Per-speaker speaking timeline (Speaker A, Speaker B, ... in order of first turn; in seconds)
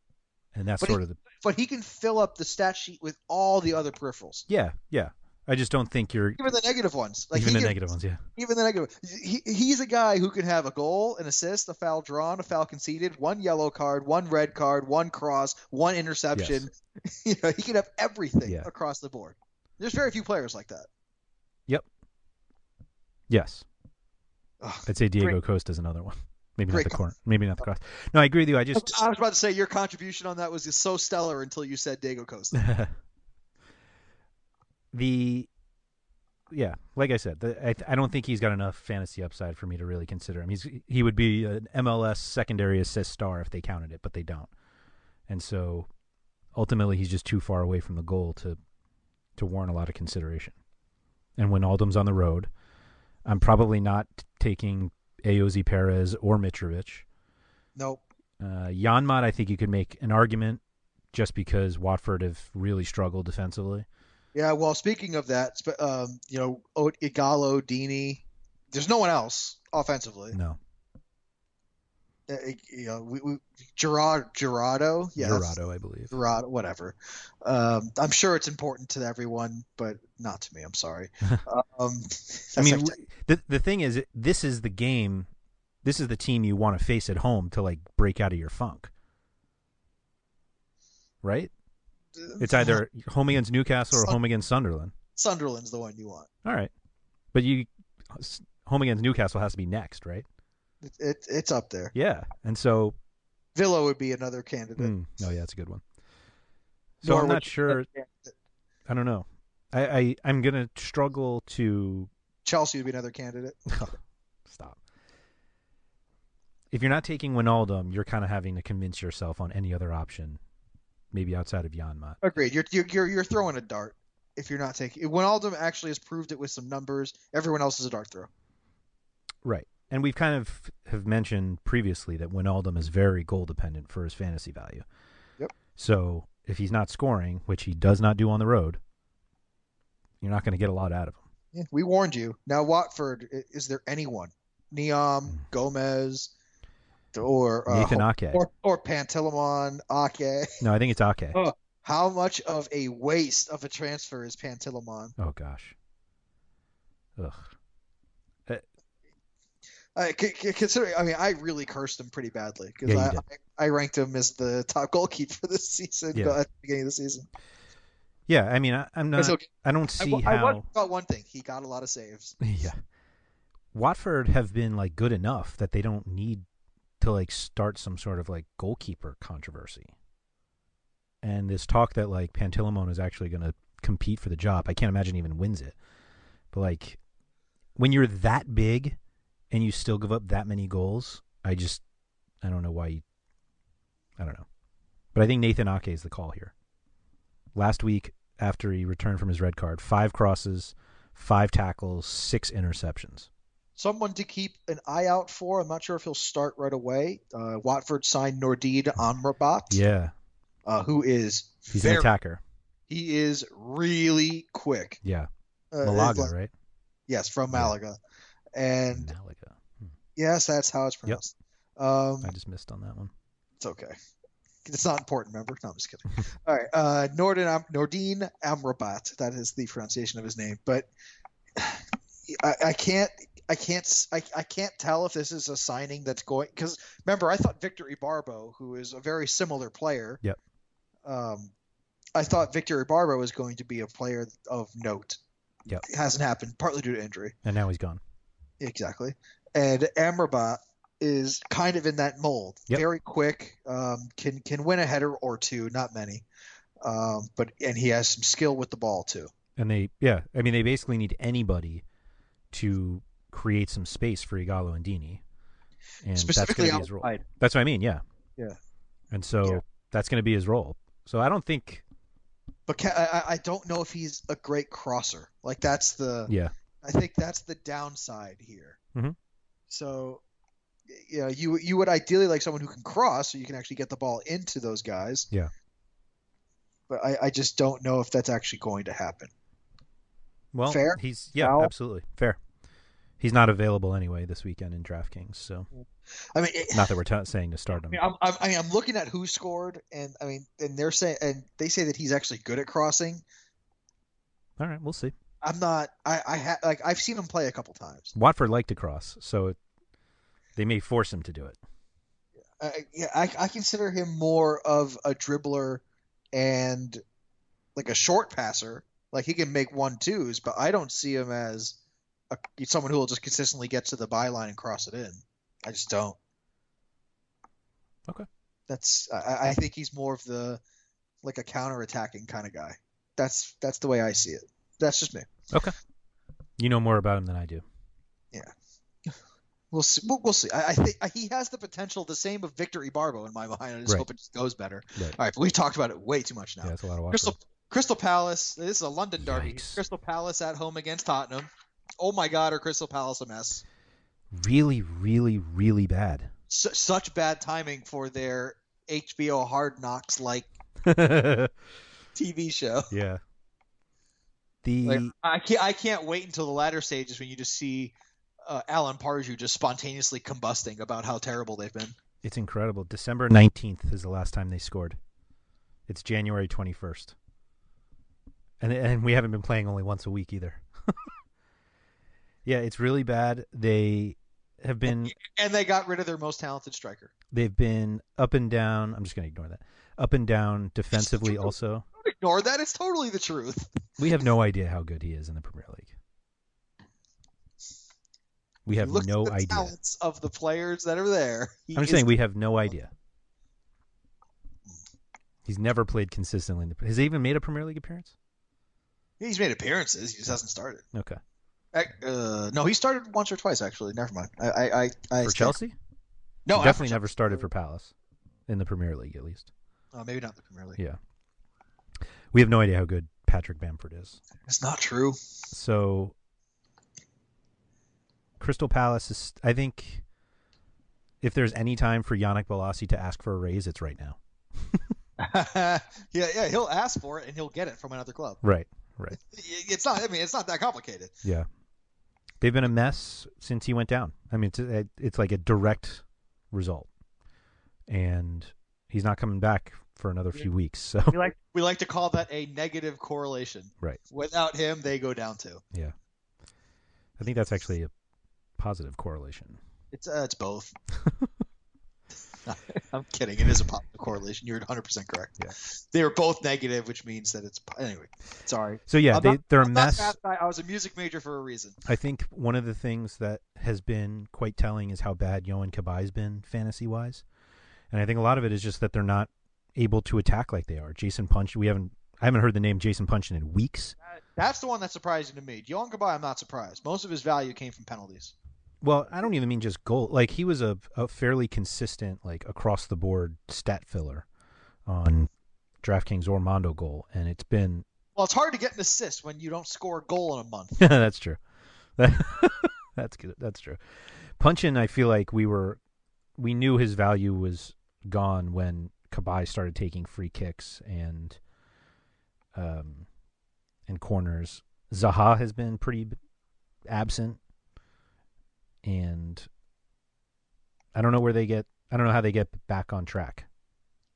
Speaker A: 0.6-1.2, 4.5-6.4, 7.3-8.2, 16.4-16.7, 23.3-23.6, 24.9-29.0, 32.5-32.9, 34.9-35.5, 36.5-44.5, 45.3-45.9, 46.5-48.6, 49.4-50.5, 51.4-52.5, 53.2-57.0, 58.4-60.6, 61.1-63.9, 70.3-70.6, 75.2-76.1, 82.6-85.3, 85.8-88.9, 91.2-91.5, 92.4-94.9, 96.5-96.7, 97.3-100.2, 101.9-103.0, 104.8-105.8, 107.0-107.9, 108.9-112.1, 113.7-114.0, 114.5-114.8, 116.7-120.4, 121.1-122.2, 129.4-134.8, 135.8-138.8, 140.2-141.2, 147.7-148.4, 150.6-151.4, 155.2-155.8, 157.2-157.5, 162.8-163.2, 166.1-166.4, 168.3-170.7, 172.4-172.8, 173.7-176.4, 177.0-179.9, 181.2-185.8, 186.5-187.0, 187.8-189.0, 189.5-191.8, 192.4-193.0, 194.2-194.4, 195.2-196.5, 197.6-203.3, 209.7-210.1, 211.7-212.4, 215.0-215.3, 215.8-216.5, 218.9-219.9, 222.2-223.1, 247.4-248.0, 259.6-261.8, 262.5-265.2, 266.0-268.0, 269.1-271.8, 290.5-292.4, 293.2-295.7, 296.7-298.0, 304.6-305.1, 308.1-309.6, 310.6-311.6, 336.6-337.6, 346.6-347.4, 349.2-349.8, 354.3-356.3, 360.8-361.5, 362.9-363.2, 364.6-365.1, 372.2-375.0, 375.9-377.1, 378.6-381.1, 382.4-385.1, 387.3-391.9, 394.0-395.9, 398.7-399.7, 401.8-402.9, 405.5-408.1, 410.9-411.2, 415.2-415.8, 416.5-417.9, 418.5-419.5, 422.3-424.2, 425.5-426.1, 428.4-430.0, 431.2-434.8, 438.4-439.2, 442.4-446.9, 447.9-451.2, 457.2-457.9, 458.6-459.6, 468.9-470.2, 471.9-477.2, 477.9-484.0, 488.8-494.3, 494.9-495.3, 495.8-497.9, 500.8-501.4, 502.0-503.8, 504.4-505.8, 506.4-511.4, 512.5-513.1, 513.9-516.2, 516.9-517.4, 518.8-519.5, 521.0-523.5
Speaker B: 0.8-4.5, 6.4-7.8, 8.4-20.9, 24.6-25.4, 26.7-27.0, 28.8-32.6, 57.8-58.0, 64.3-70.4, 72.3-75.5, 76.1-83.0, 92.2-92.8, 93.9-94.2, 95.2-96.3, 100.8-101.9, 103.5-105.0, 107.0-108.3, 112.5-113.9, 122.2-128.3, 141.5-146.3, 147.1-150.6, 151.3-155.2, 159.9-167.3, 169.2-172.4, 203.8-209.8, 210.7-212.1, 212.9-215.0, 215.7-216.3, 217.1-218.0, 218.6-219.1, 220.2-222.3, 223.6-224.0, 224.7-230.9, 231.6-240.2, 241.0-241.5, 242.2-245.2, 245.8-247.3, 248.6-256.2, 256.8-259.3, 266.1-267.2, 272.7-278.8, 279.7-280.2, 280.9-285.3, 286.9-289.3, 290.7-291.7, 296.3-296.9, 297.7-303.2, 305.4-308.1, 312.6-315.8, 316.3-317.0, 317.8-321.8, 322.3-326.2, 328.7-330.6, 331.2-335.3, 339.7-353.6, 356.5-360.5, 362.1-362.9, 364.9-372.0, 384.9-387.1, 390.9-393.7, 398.7-402.1, 409.2-410.9, 411.7-415.6, 416.5-417.4, 419.9-420.8, 424.4-425.2, 435.2-438.4, 439.2-441.1, 451.1-455.6, 459.9-460.7, 462.4-471.8, 484.2-488.3, 498.1-500.8